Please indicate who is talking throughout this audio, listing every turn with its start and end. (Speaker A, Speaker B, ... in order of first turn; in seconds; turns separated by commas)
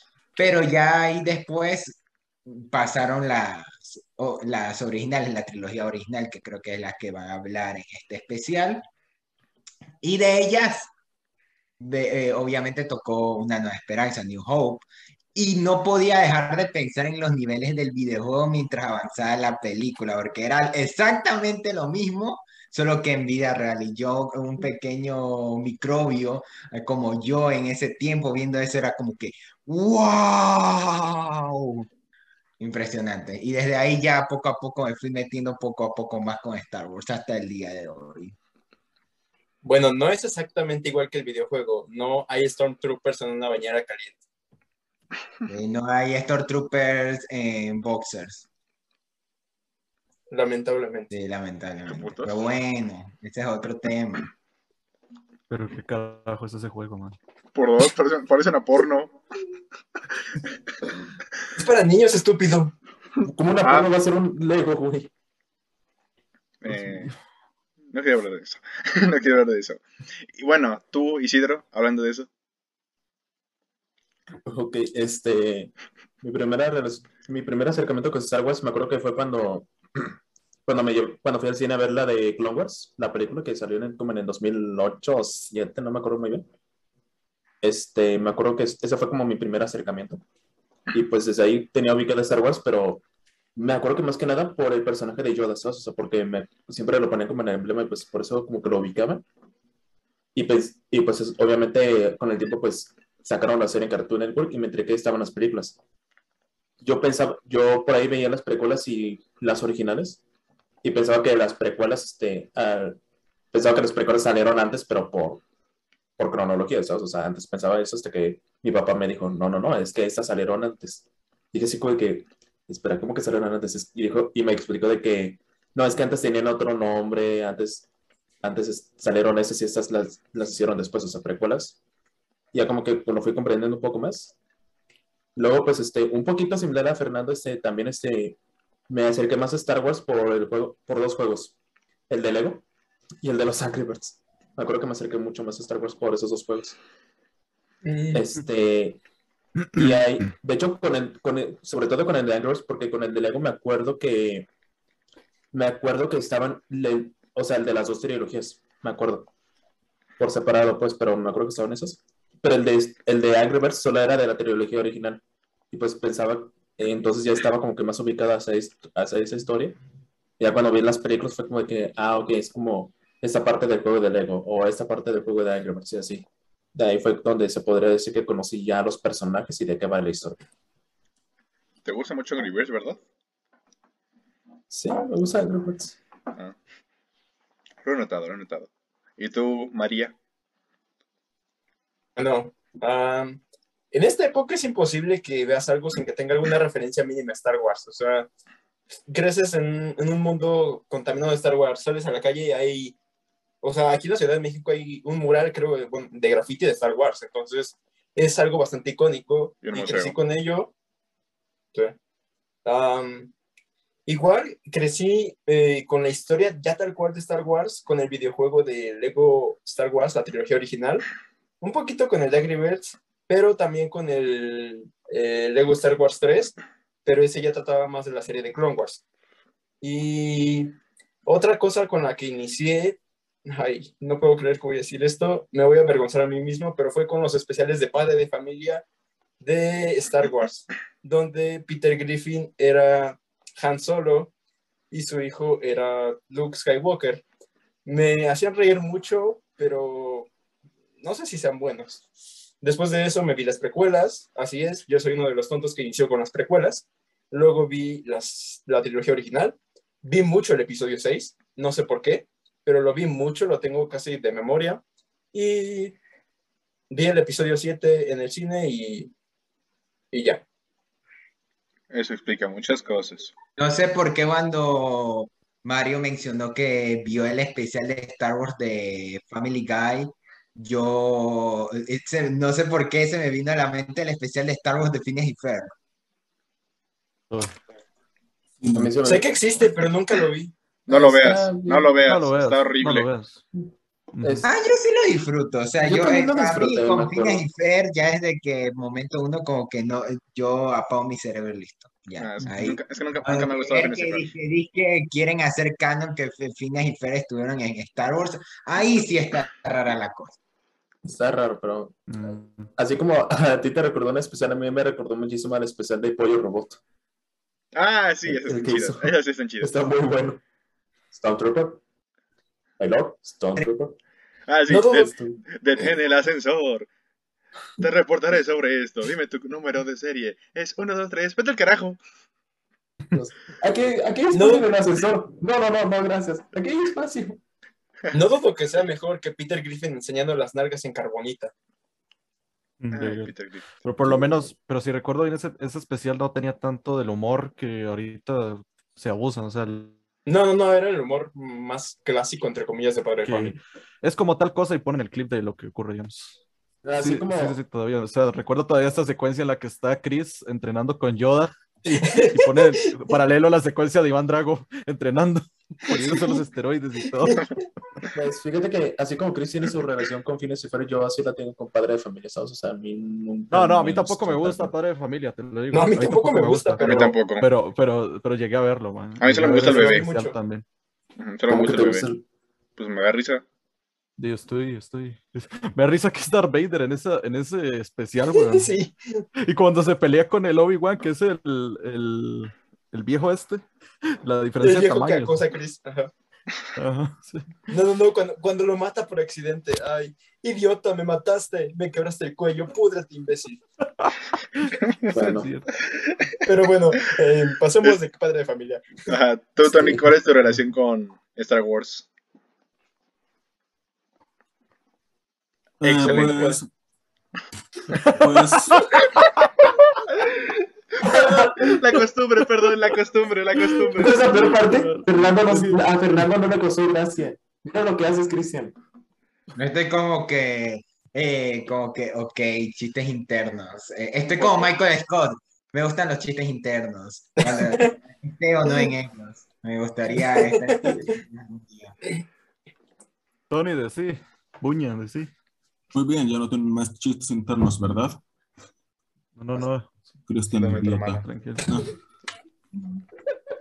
Speaker A: 0.3-8.8, Speaker A: 10.0-10.9, Speaker A: 11.8-31.9, Speaker A: 32.6-38.3, Speaker B: 39.6-44.2, Speaker A: 45.5-48.5, Speaker B: 50.3-51.1, Speaker A: 51.1-54.3, Speaker C: 51.9-52.5, Speaker D: 55.5-57.1, Speaker C: 57.5-59.2, Speaker B: 61.6-62.7, Speaker E: 63.2-65.1, Speaker C: 63.6-63.9, Speaker C: 66.6-67.1, Speaker C: 67.9-69.8, Speaker C: 70.3-72.3, Speaker E: 74.5-80.0, Speaker E: 80.7-86.5, Speaker E: 87.6-90.2, Speaker E: 90.9-93.0, Speaker E: 93.6-99.2, Speaker E: 100.3-105.8, Speaker E: 106.8-110.2, Speaker E: 110.8-113.0, Speaker E: 113.5-115.4, Speaker E: 116.2-127.9, Speaker E: 128.4-131.8, Speaker E: 132.5-134.3, Speaker E: 135.3-141.6, Speaker E: 142.1-142.6, Speaker E: 143.2-146.8, Speaker B: 147.8-148.2, Speaker E: 148.1-149.0, Speaker E: 149.7-154.5, Speaker E: 155.5-159.3, Speaker E: 160.2-169.8, Speaker E: 170.4-180.4, Speaker C: 181.8-183.0, Speaker E: 184.7-185.9, Speaker C: 187.8-190.1, Speaker B: 192.2-193.4, Speaker B: 193.9-198.3, Speaker B: 199.1-202.9, Speaker B: 203.6-210.7, Speaker C: 209.6-210.2, Speaker B: 212.6-213.3, Speaker B: 214.1-221.1, Speaker B: 221.6-229.0, Speaker B: 229.8-238.8, Speaker B: 239.4-244.3, Speaker B: 244.9-247.2, Speaker B: 247.8-250.3, Speaker B: 251.0-252.0, Speaker B: 252.6-265.9, Speaker B: 266.9-269.1, Speaker B: 270.1-270.4, Speaker C: 271.9-273.3, Speaker A: 273.6-285.7, Speaker D: 287.3-287.6, Speaker E: 288.7-289.3, Speaker B: 289.0-290.5, Speaker C: 290.9-293.1, Speaker E: 290.9-291.9, Speaker D: 292.0-293.4, Speaker D: 294.1-294.4, Speaker E: 294.2-294.5, Speaker A: 294.4-310.4, Speaker E: 295.8-297.4, Speaker C: 302.2-304.3, Speaker E: 311.1-312.1, Speaker D: 312.1-312.7, Speaker E: 312.8-316.8, Speaker C: 317.7-319.7, Speaker E: 318.3-320.4, Speaker E: 321.1-321.8, Speaker E: 322.8-324.0, Speaker C: 324.5-326.9, Speaker B: 324.7-325.1, Speaker E: 325.0-325.4, Speaker C: 327.8-332.0, Speaker E: 333.1-337.4, Speaker B: 334.3-334.7, Speaker B: 338.1-341.5, Speaker D: 342.8-349.9, Speaker C: 342.9-343.7, Speaker B: 350.2-353.6, Speaker D: 353.2-356.4, Speaker E: 356.8-357.6, Speaker D: 357.0-367.4, Speaker B: 361.9-362.9, Speaker B: 366.0-366.4, Speaker B: 367.2-367.6, Speaker E: 368.1-374.7, Speaker D: 373.5-380.6, Speaker B: 375.7-377.2, Speaker C: 376.8-377.5, Speaker C: 379.2-380.1, Speaker B: 379.4-380.4, Speaker C: 381.2-382.1, Speaker E: 381.5-382.2, Speaker C: 382.8-383.4, Speaker D: 384.2-388.7, Speaker B: 388.3-389.2, Speaker D: 389.4-393.6, Speaker D: 394.2-395.4, Speaker B: 394.6-396.1, Speaker D: 396.8-397.6, Speaker B: 397.7-403.6, Speaker D: 404.0-405.7, Speaker E: 405.1-405.5, Speaker B: 406.4-408.9, Speaker C: 409.1-412.1, Speaker E: 409.7-410.0, Speaker C: 415.8-416.6, Speaker F: 415.8-416.7, Speaker D: 416.0-416.3, Speaker D: 417.9-419.4, Speaker F: 418.1-419.1, Speaker C: 420.2-424.4, Speaker E: 421.0-421.8, Speaker E: 423.9-428.8, Speaker D: 424.2-425.9, Speaker A: 429.6-441.9, Speaker C: 434.4-434.7, Speaker B: 437.5-437.9, Speaker B: 440.3-441.1, Speaker D: 443.5-445.3, Speaker F: 445.9-448.2, Speaker D: 449.4-450.0, Speaker F: 450.3-451.9, Speaker C: 450.5-451.1, Speaker D: 451.0-451.8